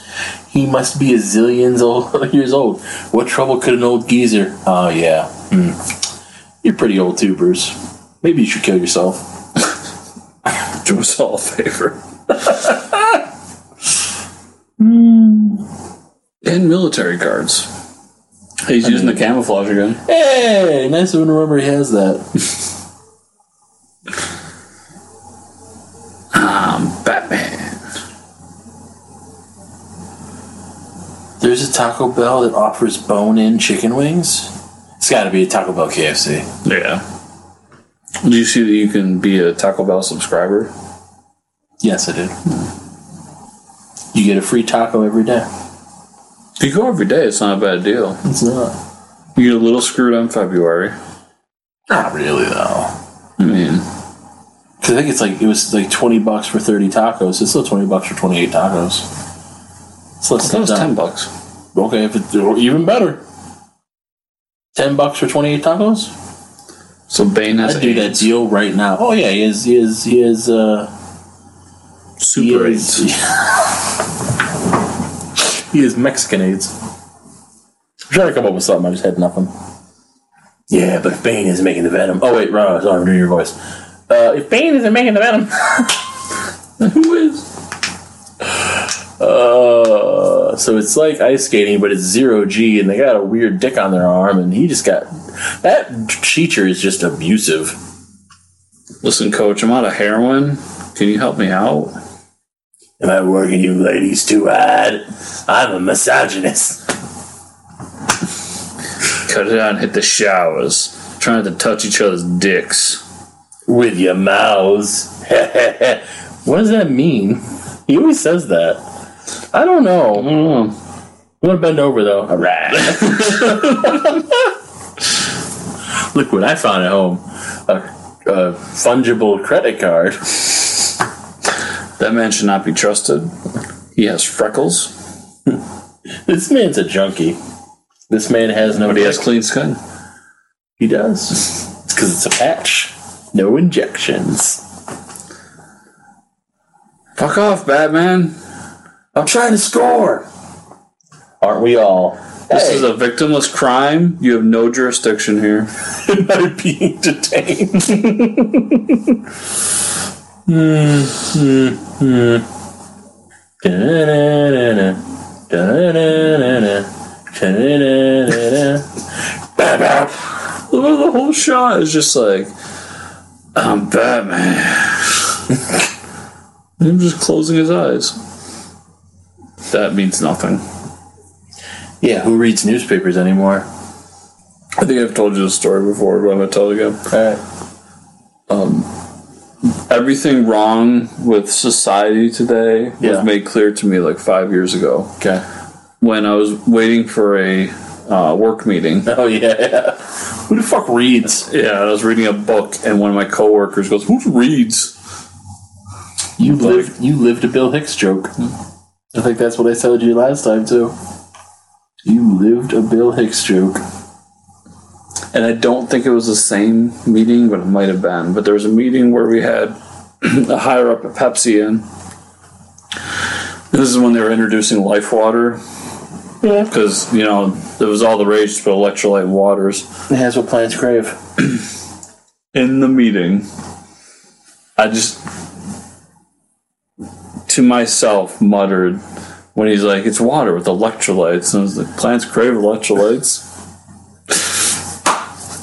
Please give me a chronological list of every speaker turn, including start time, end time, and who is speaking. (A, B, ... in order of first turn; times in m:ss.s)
0:00.5-0:05.9 A
0:06.6-0:09.3 A
0:10.7-0:12.0 B
0:12.5-0:13.2 A
0:14.8-0:15.6 A
0:16.4-0:17.7 B
0:18.6-0:20.0 B
0:18.8-0:19.2 A
0:20.0-0:22.2 A
0:26.3-0:27.8 B
0:31.4-0:36.5 A
0:36.6-0:37.0 B
0:38.2-0:40.7 B
0:41.8-0:42.4 A
0:44.1-0:45.5 A
0:46.6-0:48.2 B
0:48.2-0:48.8 A
0:49.4-0:51.0 B
0:51.9-0:53.0 A
0:53.4-0:53.9 B
0:54.8-0:59.1 A
1:00.2-1:00.9 A
1:00.4-1:01.3 B
1:01.8-1:03.2 A
1:04.8-1:06.1 A
1:07.1-1:08.3 B
1:07.6-1:10.9 A
1:12.2-1:13.1 B
1:12.4-1:13.7 A
1:15.5-1:16.7 A
1:18.1-1:19.5 A
1:20.7-1:23.6 A
1:24.1-1:26.1 A
1:26.8-1:27.5 B
1:28.5-1:37.8 A
1:39.0-1:41.9 B
1:43.0-1:46.8 A
1:49.2-1:53.0 B
1:53.7-1:58.8 A
1:59.5-2:00.4 A
2:00.2-2:00.8 B
2:01.4-2:04.5 A
2:02.9-2:04.0 B
2:06.1-2:10.5 A
2:12.0-2:13.3 B
2:14.0-2:14.9 B
2:16.3-2:17.4 A
2:18.1-2:19.2 A
2:18.8-2:19.8 B
2:20.8-2:24.6 A
2:27.2-2:28.4 B
2:29.2-2:30.2 A
2:31.4-2:32.9 A
2:32.5-2:35.7 B
2:36.0-2:38.1 A
2:37.9-2:39.0 B
2:40.5-2:42.5 A
2:43.6-2:48.9 A
2:49.6-2:50.3 A
2:50.6-2:52.5 B
2:53.6-2:55.4 B
2:56.8-2:58.2 B
2:59.7-3:00.6 B
3:02.0-3:03.7 A
3:04.8-3:07.0 B
3:07.1-3:07.4 A
3:08.5-3:08.9 B
3:09.9-3:15.1 B
3:13.0-3:13.3 A
3:16.0-3:19.1 B
3:19.1-3:21.5 A
3:21.5-3:24.9 B
3:26.4-3:28.3 A
3:26.5-3:26.9 B
3:29.1-3:31.0 A
3:32.0-3:33.8 A
3:35.3-3:41.8 B
3:43.7-3:45.6 B
3:46.4-3:46.7 A
3:46.7-3:49.9 B
3:50.1-3:51.2 A
3:52.5-3:53.5 B
3:54.8-3:55.2 B
3:57.5-3:59.0 B
3:59.6-4:03.4 B